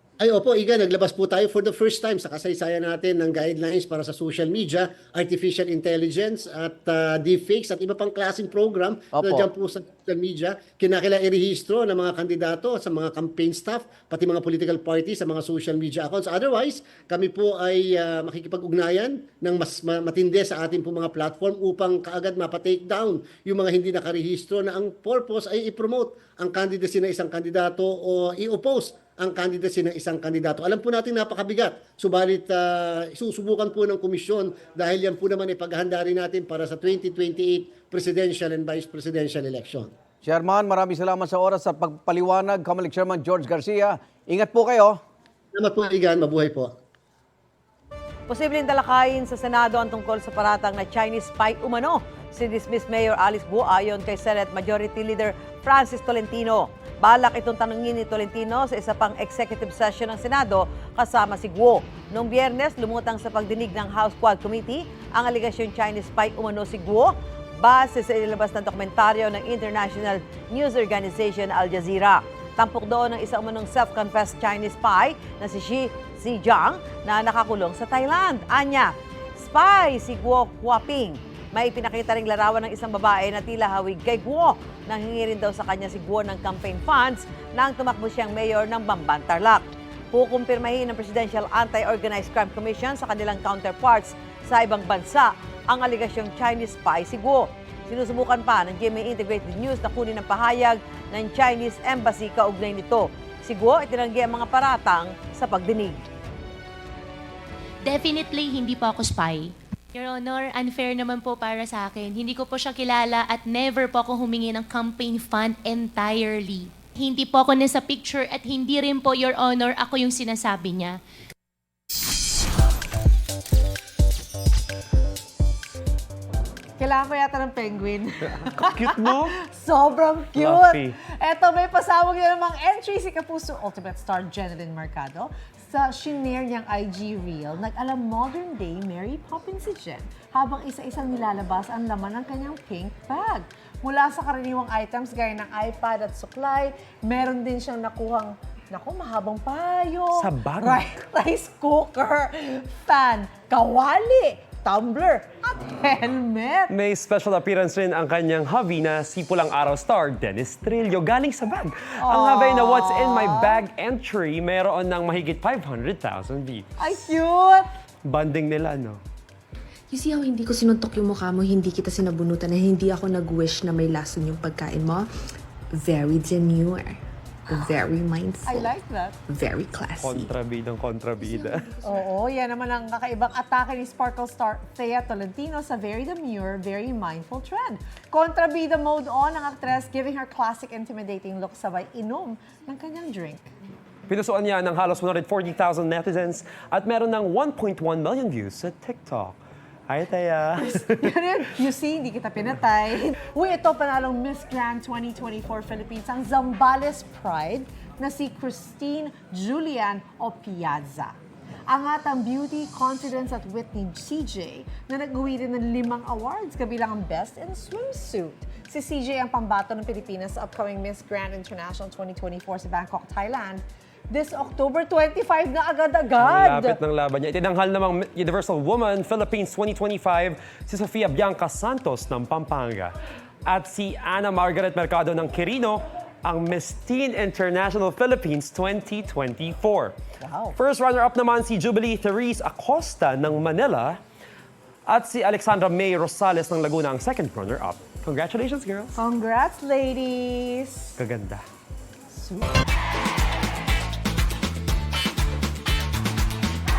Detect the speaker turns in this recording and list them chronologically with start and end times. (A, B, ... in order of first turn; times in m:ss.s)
0:00.2-0:39.9 A
0:09.1-0:09.5 B
0:40.2-0:45.0 B
0:45.5-0:46.7 A
0:48.3-1:46.1 C
1:47.8-2:01.0 D
2:06.8-2:36.7 E
2:08.4-2:09.4 F
2:10.3-2:10.9 F
2:30.1-2:30.9 F
2:36.7-2:46.7 F
2:42.0-2:43.6 E
2:46.8-2:47.7 E
2:48.0-2:49.0 F
2:49.9-2:55.1 G
2:55.7-2:58.7 G
2:58.4-2:59.2 E
2:59.3-3:00.3 G
3:00.0-3:01.7 F
3:01.8-3:13.4 E
3:14.1-3:21.1 F
3:20.6-3:31.1 E
3:31.7-3:46.8 E
3:46.2-3:52.9 F
3:53.4-4:00.0 F
4:00.2-4:00.5 E
4:00.6-4:04.0 F
4:04.8-4:08.9 F
4:08.9-4:10.9 E
4:11.0-4:11.4 F
4:12.1-4:12.5 E